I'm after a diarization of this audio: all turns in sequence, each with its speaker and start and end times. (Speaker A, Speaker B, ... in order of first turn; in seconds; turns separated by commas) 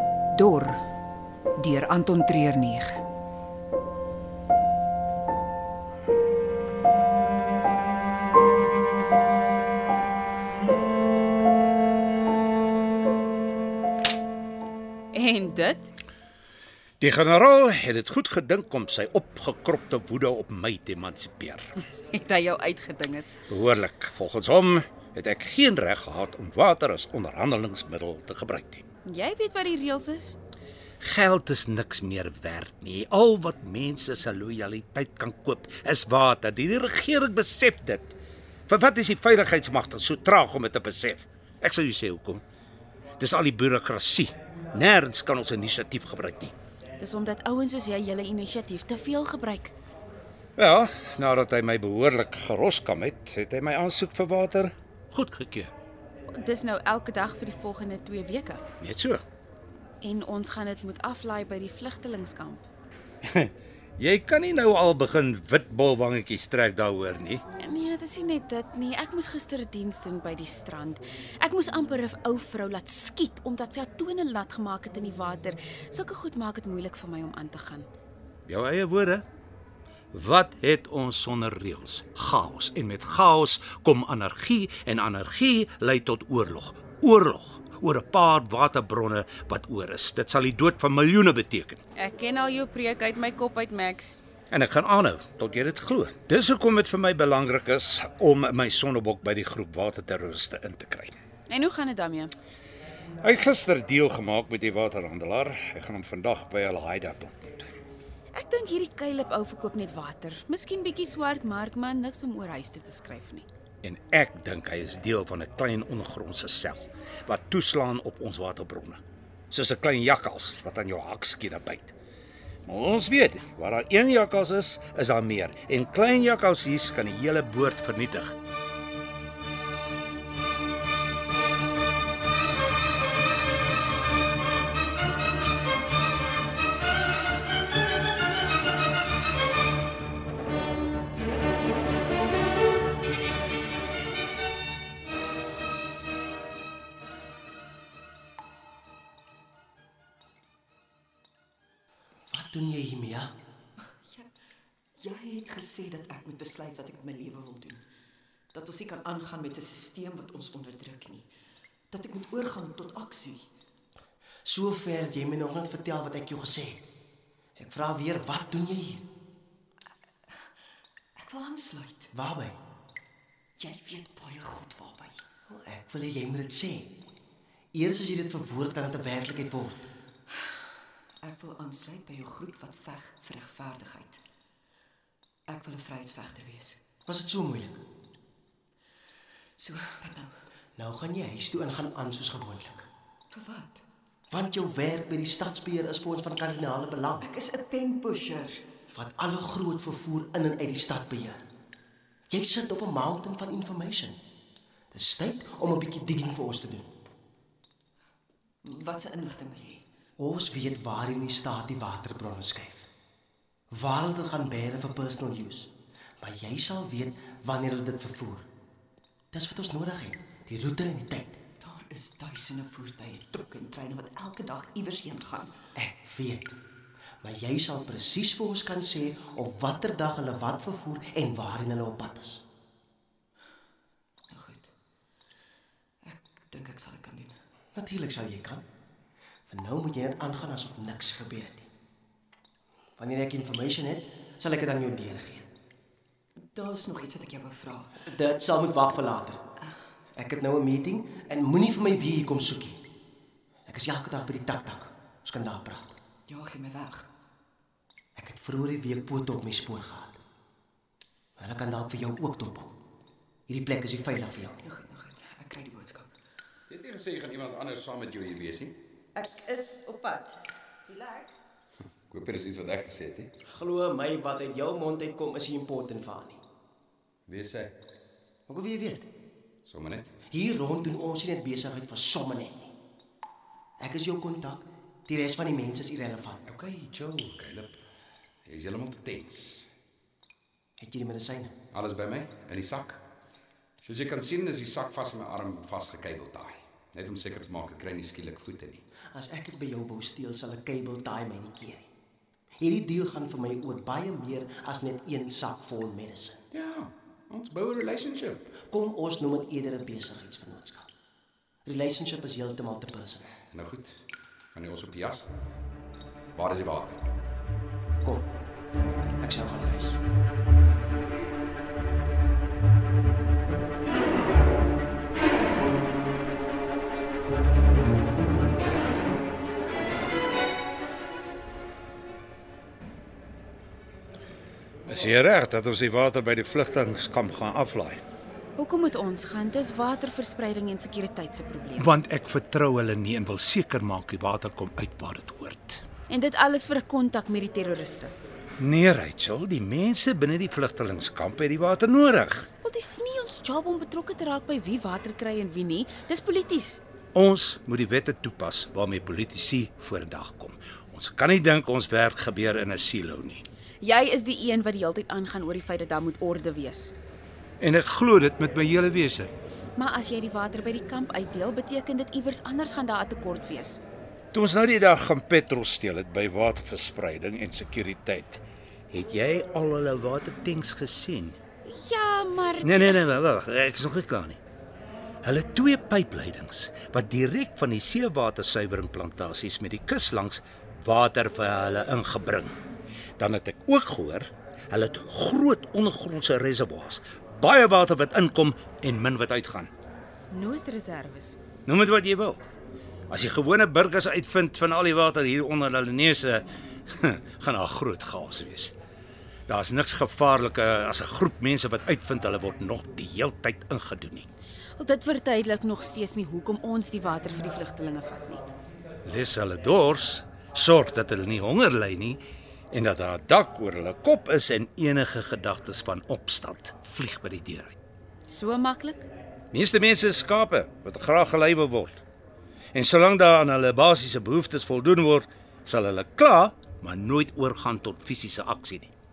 Speaker A: 0.3-0.8, Speaker A: 1.6-3.0, Speaker B: 15.1-15.9, Speaker C: 17.0-21.7, Speaker B: 22.1-23.4, Speaker C: 23.5-28.8, Speaker B: 29.0-30.4, Speaker C: 31.0-38.1, Speaker C: 38.7-42.4, Speaker C: 43.2-46.5, Speaker B: 47.0-49.7, Speaker C: 50.5-55.7, Speaker B: 56.3-58.6, Speaker C: 58.8-59.2, Speaker B: 60.0-62.6, Speaker C: 63.2-67.4, Speaker B: 67.6-77.9, Speaker C: 78.5-79.2, Speaker C: 80.1-91.8, Speaker B: 91.9-94.2, Speaker C: 94.5-101.1, Speaker B: 101.5-102.3, Speaker C: 103.2-107.7, Speaker B: 108.3-113.5, Speaker C: 113.8-122.0, Speaker C: 122.7-128.3, Speaker D: 152.3-153.3, Speaker A: 155.0-157.8, Speaker A: 158.5-161.3, Speaker A: 161.9-163.5, Speaker D: 164.4-166.8, Speaker D: 167.6-169.1, Speaker A: 171.2-172.1, Speaker D: 172.1-172.6, Speaker A: 173.6-175.2, Speaker D: 175.5-177.0, Speaker D: 177.7-179.9, Speaker A: 181.2-184.2, Speaker A: 185.5-186.8, Speaker D: 187.1-187.8, Speaker A: 189.6-190.4, Speaker D: 190.8-192.9, Speaker A: 193.3-193.8, Speaker D: 194.3-197.2, Speaker A: 197.2-198.6, Speaker D: 198.9-201.4, Speaker D: 202.3-204.2, Speaker D: 204.9-206.9, Speaker A: 208.6-209.8, Speaker D: 210.2-212.9, Speaker D: 213.7-218.4, Speaker D: 219.3-221.4, Speaker A: 221.6-225.5, Speaker D: 225.8-226.6, Speaker D: 227.2-232.4, Speaker A: 234.3-234.7, Speaker A: 236.0-237.4, Speaker D: 237.7-238.6, Speaker D: 239.5-241.7, Speaker D: 243.0-245.4, Speaker A: 246.3-248.1, Speaker D: 248.1-249.4, Speaker D: 250.1-252.8, Speaker D: 253.7-256.0, Speaker A: 256.3-257.1, Speaker D: 258.1-260.2, Speaker D: 261.4-262.7, Speaker D: 263.5-264.6, Speaker A: 264.6-266.1, Speaker E: 266.7-268.8, Speaker A: 269.1-271.4, Speaker E: 272.1-273.3, Speaker D: 273.5-276.4, Speaker E: 277.3-277.8, Speaker D: 278.5-279.1, Speaker E: 279.6-280.1, Speaker D: 280.3-282.7, Speaker D: 283.8-286.4, Speaker E: 286.4-287.8, Speaker E: 288.4-289.7, Speaker D: 290.8-291.5, Speaker E: 291.7-293.0, Speaker E: 293.8-298.8, Speaker D: 299.1-301.9, Speaker D: 302.6-306.4, Speaker E: 306.5-308.5, Speaker D: 308.7-310.9, Speaker D: 311.6-313.2, Speaker E: 313.5-314.0, Speaker E: 314.5-315.3, Speaker E: 316.3-317.0, Speaker D: 319.2-320.0, Speaker C: 334.9-338.0, Speaker B: 338.6-341.9, Speaker C: 341.8-345.8, Speaker B: 346.1-348.1, Speaker C: 348.6-352.5, Speaker B: 352.6-356.8, Speaker C: 357.1-363.4, Speaker B: 363.8-366.9, Speaker C: 367.6-369.3, Speaker B: 369.8-373.8, Speaker C: 374.3-381.4, Speaker B: 381.6-383.1, Speaker C: 382.6-384.4, Speaker C: 385.2-392.5, Speaker C: 393.2-399.7, Speaker B: 400.3-401.4, Speaker C: 401.6-402.4, Speaker C: 403.1-408.7, Speaker C: 409.5-414.3, Speaker B: 414.8-418.4, Speaker C: 419.0-427.8, Speaker B: 428.3-429.1, Speaker C: 429.5-432.0, Speaker C: 432.7-438.9